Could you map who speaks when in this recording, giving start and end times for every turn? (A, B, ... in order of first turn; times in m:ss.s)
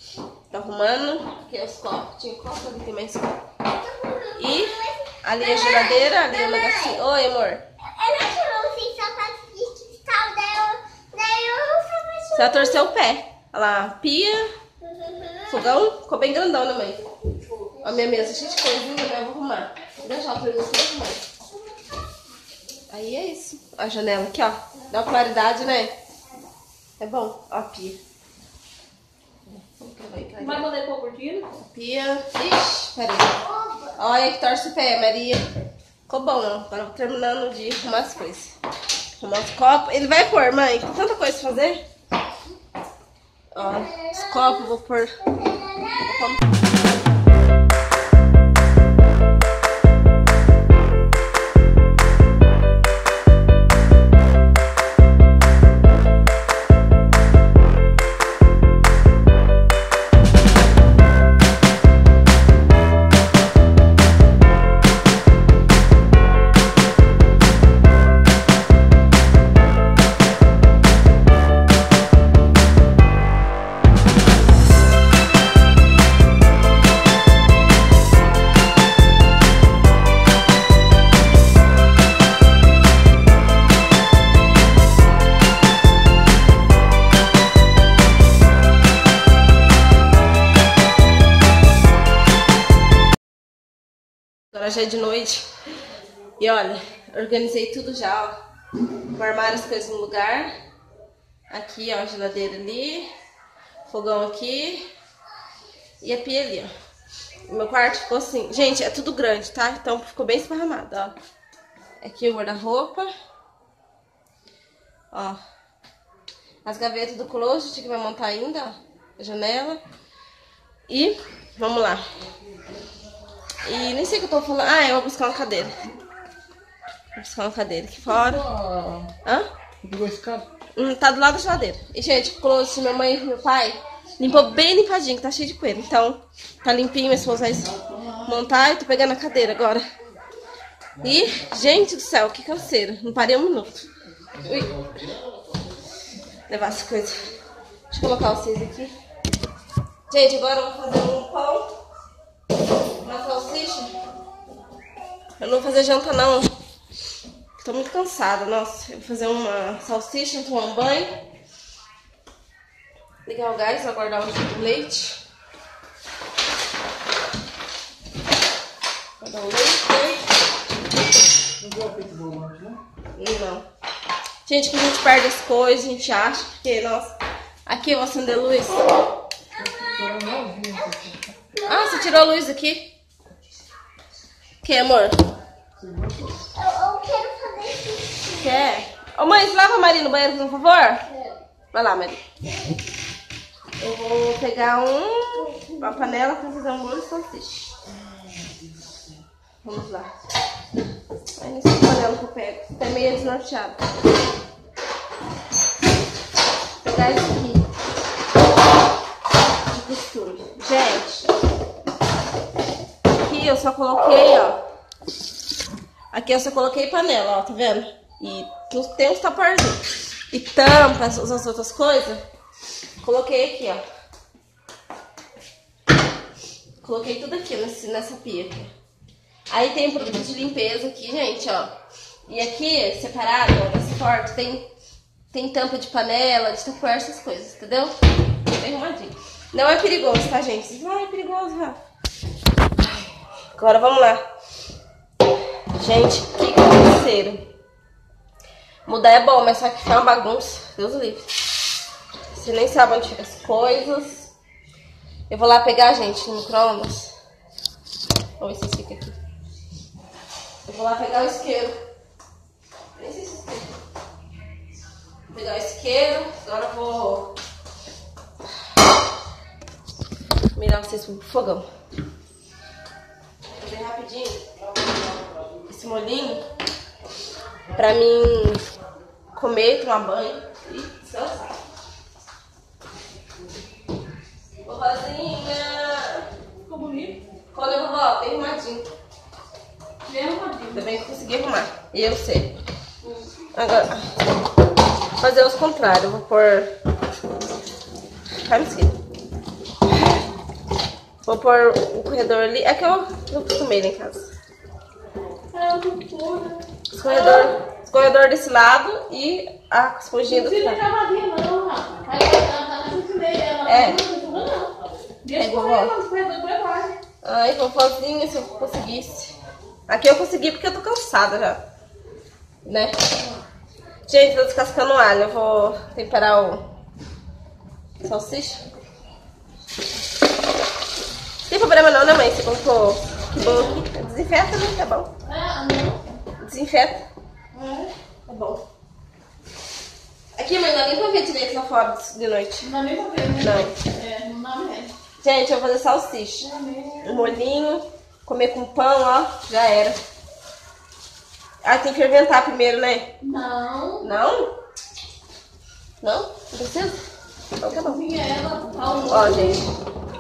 0:00.5-0:03.4 A
0:04.2-0:07.7 A
0:07.9-0:12.3 B
0:12.3-0:14.5 A
0:15.2-0:17.1 A
0:17.7-0:21.2 A
0:22.9-0:25.9 A
0:27.0-0:28.0 A
0:29.6-0:30.7 A
0:30.4-0:31.5 C
0:31.5-0:35.5 A
0:36.1-0:38.6 A
0:39.2-0:41.8 A
0:43.5-0:46.4 A
1:34.5-1:35.5 A
1:36.4-1:38.4 A
1:39.1-1:40.5 A
1:41.5-1:43.1 A
1:43.8-1:44.9 A
1:46.0-1:46.7 A
1:47.5-1:51.2 A
1:52.0-1:53.1 A
1:55.1-1:55.4 A
1:56.6-1:59.8 A
2:00.9-2:02.0 A
2:03.6-2:05.8 A
2:07.2-2:08.5 A
2:08.6-2:09.1 D
2:09.2-2:09.5 A
2:09.8-2:10.5 D
2:10.7-2:19.8 A
2:21.0-2:24.9 A
2:26.5-2:27.3 A
2:27.9-2:28.9 A
2:30.1-2:31.8 A
2:33.0-2:34.0 A
2:35.4-2:36.5 A
2:37.6-2:41.2 A
2:43.2-2:45.2 A
2:49.2-2:50.2 A
2:51.6-2:52.8 D
2:53.1-2:53.7 A
2:54.4-2:57.2 A
2:57.7-2:59.0 A
2:59.7-3:01.5 D
3:01.6-3:02.9 A
3:04.6-3:05.2 A
3:05.8-3:06.5 D
3:06.5-3:08.3 B
3:08.3-3:11.2 A
3:11.7-3:12.2 A
3:13.8-3:17.7 A
3:19.6-3:20.2 A
3:21.4-3:23.8 A
3:26.8-3:27.7 A
3:29.7-3:31.3 A
3:33.1-3:34.6 A
3:36.1-3:42.2 A
3:43.0-3:43.8 A
3:46.8-3:48.7 A
3:49.5-3:51.7 A
3:52.3-3:54.7 A
3:55.3-4:01.8 A
4:03.5-4:04.2 A
4:05.7-4:07.5 A
4:08.8-4:11.4 A
4:12.3-4:14.3 A
4:15.3-4:17.1 A
4:18.4-4:19.2 A
4:20.6-4:21.8 A
4:23.0-4:23.8 A
4:25.3-4:27.4 A
4:30.5-4:31.7 A
4:33.5-4:34.4 A
4:35.6-4:36.4 A
4:37.7-4:38.6 A
4:39.3-4:41.5 A
4:44.6-4:46.3 A
4:46.7-4:47.2 C
4:47.5-4:48.9 A
4:50.0-4:50.8 C
4:50.7-4:52.5 A
4:53.5-4:54.2 A
4:55.2-4:56.7 A
4:58.4-4:59.0 A
5:01.2-5:04.3 A
5:05.5-5:07.4 C
5:06.9-5:10.9 A
5:10.3-5:17.0 C
5:13.6-5:14.0 A
5:15.4-5:15.9 A
5:17.2-5:19.4 A
5:19.9-5:21.6 A
5:22.6-5:23.2 A
5:24.0-5:26.7 A
5:28.0-5:28.6 A
5:31.5-5:35.1 A
5:35.2-5:36.1 C
5:36.4-5:38.6 A
5:40.4-5:42.7 A
5:42.6-5:44.9 C
5:43.4-5:43.8 A
5:45.2-5:50.0 A
5:46.4-5:47.1 C
5:51.6-5:53.1 A
5:53.2-5:54.0 C
5:54.0-5:54.5 A
5:56.0-5:57.0 A
5:57.6-5:58.0 A
5:57.7-5:59.6 C
5:59.0-5:59.6 A